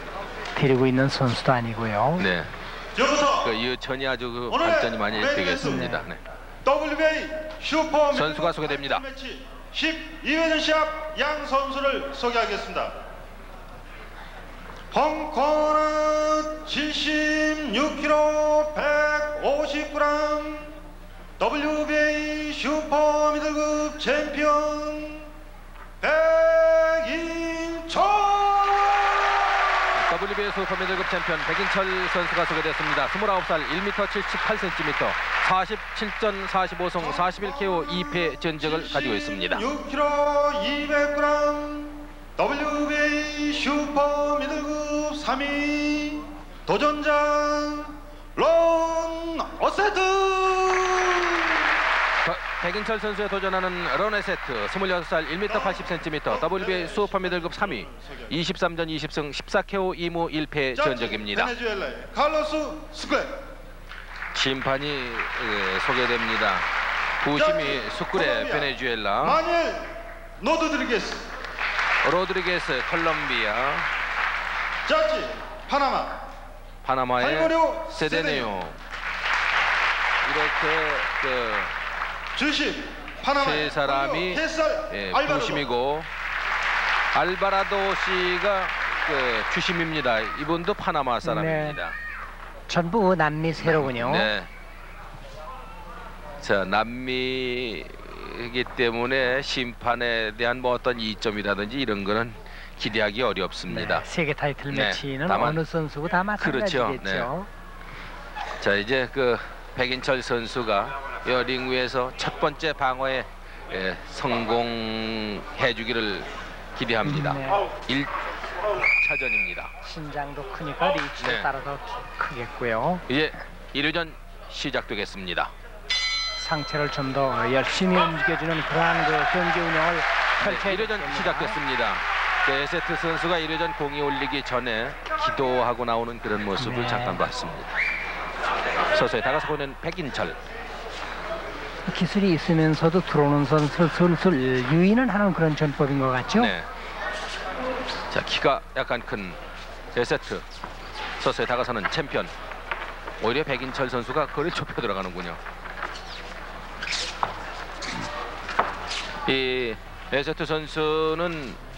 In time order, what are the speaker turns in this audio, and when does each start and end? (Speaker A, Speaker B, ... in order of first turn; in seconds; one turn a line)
Speaker A: 0.5-2.3
Speaker B: 2.2-2.5
Speaker C: 3.0-3.5
Speaker B: 3.4-6.2
Speaker C: 4.5-5.8
Speaker A: 5.5-6.1
Speaker C: 6.6-12.9
Speaker B: 8.1-9.1
Speaker C: 14.9-20.8
Speaker C: 21.4-25.3
Speaker C: 26.0-29.8
Speaker B: 29.9-39.7
Speaker C: 37.2-51.6
Speaker B: 52.2-61.5
Speaker C: 55.5-58.3
Speaker C: 60.8-63.4
Speaker B: 64.3-66.7
Speaker B: 67.2-69.4
Speaker C: 67.3-71.2
Speaker B: 72.0-73.9
Speaker C: 74.9-76.2
Speaker B: 76.8-78.8
Speaker C: 77.2-78.6
Speaker B: 80.2-81.7
Speaker C: 82.4-85.6
Speaker B: 83.3-86.1
Speaker B: 87.1-92.0
Speaker A: 91.2-91.8
Speaker A: 92.7-94.3
Speaker B: 93.6-94.5
Speaker B: 96.4-104.1
Speaker A: 103.7-107.5
Speaker B: 104.7-105.6
Speaker B: 106.4-107.3
Speaker B: 108.6-118.1
Speaker A: 117.0-117.6
Speaker B: 119.0-119.7
Speaker A: 119.8-123.0
Speaker B: 121.2-121.5
Speaker B: 123.1-125.5
Speaker A: 126.4-131.6
Speaker B: 130.4-137.7
Speaker A: 136.6-137.2
Speaker B: 138.9-140.4
Speaker A: 141.8-146.5
Speaker B: 146.4-146.7
Speaker B: 148.1-149.4
Speaker B: 149.9-150.4
Speaker B: 151.2-152.3
Speaker B: 153.2-155.4
Speaker B: 159.2-161.6